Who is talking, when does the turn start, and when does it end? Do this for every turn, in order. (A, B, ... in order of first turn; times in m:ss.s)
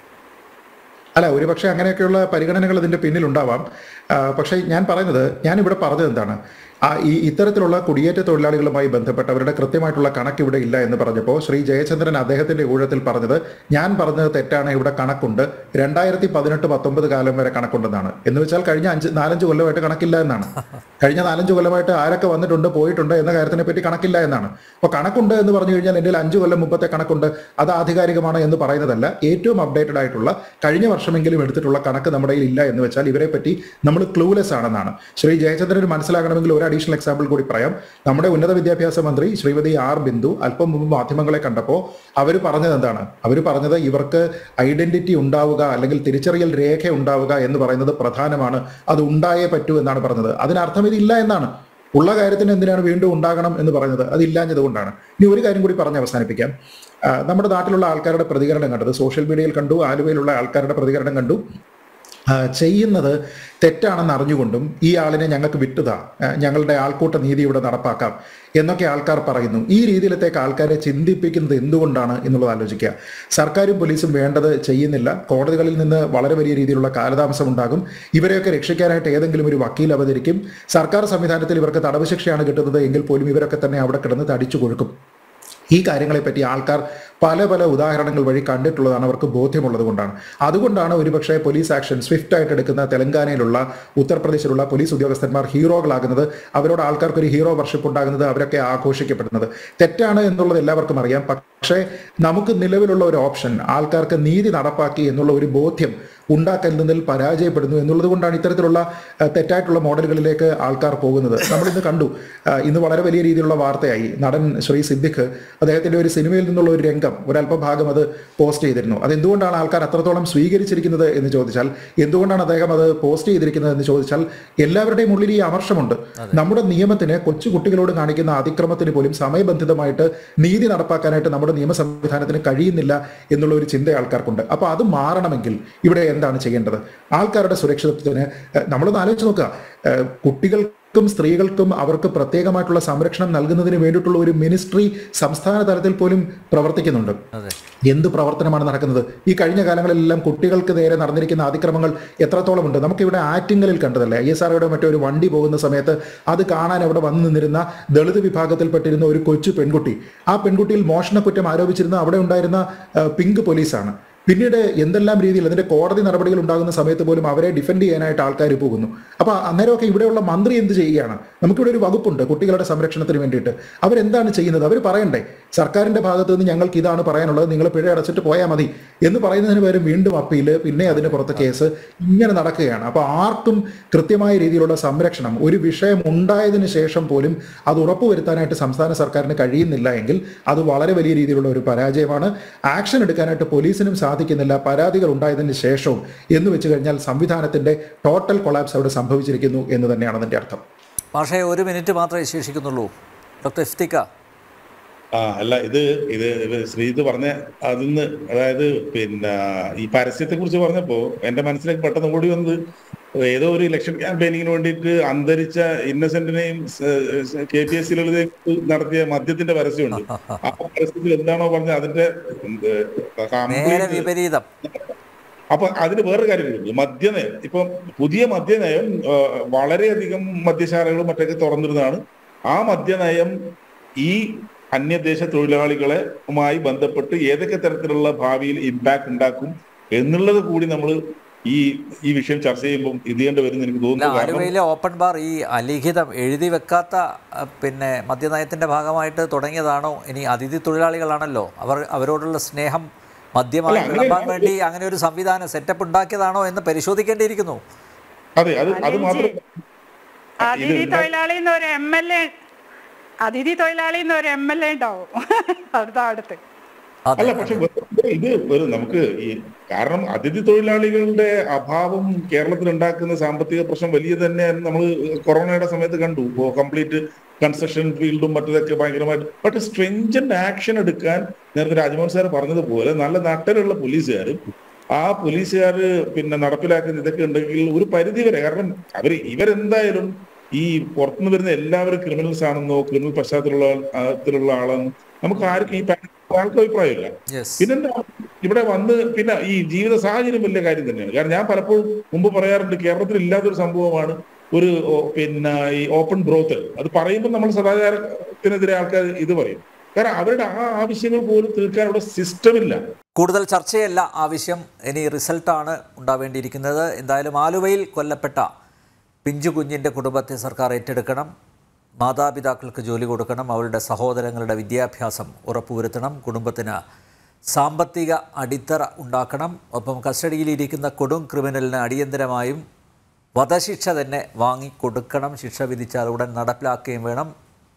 0:01.2-0:56.5 A
0:57.1-1:01.4 A
1:02.3-1:25.0 A
1:25.7-2:27.2 A
2:27.9-3:20.6 A
3:00.9-3:01.4 B
3:21.2-3:22.9 B
3:23.4-3:24.0 B
3:25.2-3:32.6 C
3:33.3-3:44.1 C
3:39.9-3:40.5 B
3:43.5-3:44.4 B
3:44.6-3:44.9 C
3:45.5-3:52.0 C
3:52.5-3:53.3 C
3:54.0-4:04.5 C
4:04.0-4:12.9 B
4:13.4-4:17.6 B
4:13.7-4:14.5 C
4:18.4-4:19.4 C
4:18.7-4:19.4 D
4:20.4-4:22.3 D
4:20.5-4:21.1 C
4:23.3-4:26.4 D
4:27.1-4:27.6 B
4:27.2-4:44.4 C
4:45.0-5:12.8 C
4:57.3-4:57.7 B
5:13.2-5:18.5 B
5:19.3-5:21.3 B
5:22.0-5:26.8 B
5:27.5-5:32.6 B
5:33.4-5:37.3 B